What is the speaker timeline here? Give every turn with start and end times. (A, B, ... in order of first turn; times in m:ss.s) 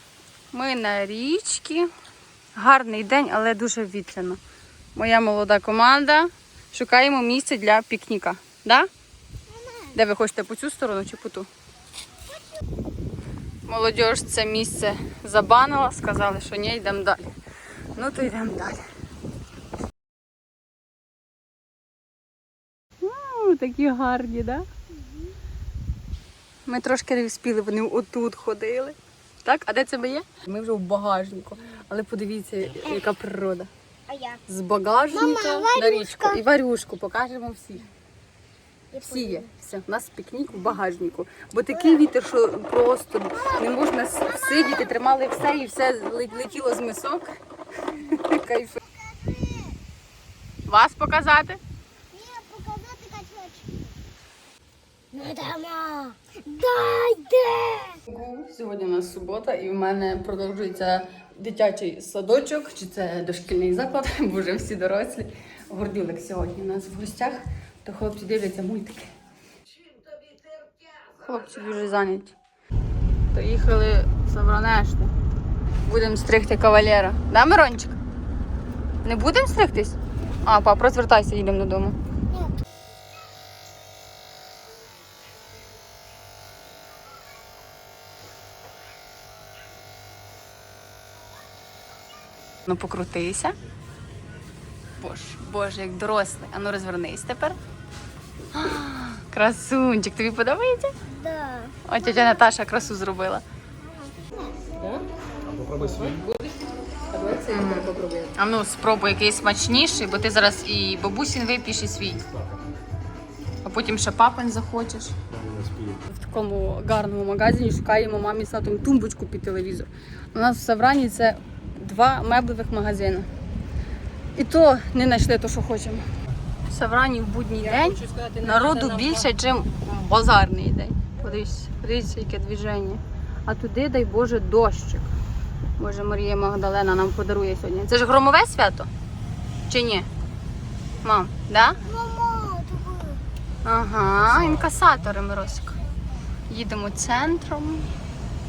0:00.5-0:01.9 A
0:02.6-0:04.4 A
0:05.0-0:08.9 A
0:09.5-0:09.9 B
0:09.9-0:11.5 A
0:13.7-0:17.3 A
0:18.0-0:18.8 A
0:23.0-0:24.7 A
0:24.9-0:25.3 B
0:26.7-0:33.7 A
0:34.1-0:34.4 B
0:34.5-0:37.8 A
0:35.1-0:36.4 B
0:38.9-0:39.5 B
0:39.0-0:47.3 A
0:41.7-0:42.0 B
0:43.3-0:44.9 B
0:47.9-0:48.8 A
0:48.8-0:49.8 B
0:50.7-0:51.6 A
0:52.1-0:53.9 B
0:55.1-0:58.0 B
0:58.1-1:09.1 A
1:11.2-1:12.4 A
1:13.3-1:15.1 A
1:15.9-1:18.0 A
1:19.0-1:22.0 A
1:32.7-1:33.6 A
1:35.0-1:37.6 A
1:38.5-1:41.0 A
1:41.1-1:42.4 B
1:41.9-1:43.4 A
1:43.8-1:44.7 B
1:44.8-1:48.3 C
1:47.5-1:52.2 A
1:53.6-1:55.2 A
1:56.0-2:03.3 A
2:04.4-2:06.1 A
2:06.7-2:15.2 A
2:07.6-2:09.8 C
2:15.8-2:18.9 A
2:19.7-2:20.1 A
2:21.0-2:21.8 A
2:21.8-2:23.2 B
2:23.6-2:25.8 A
2:26.5-2:27.9 A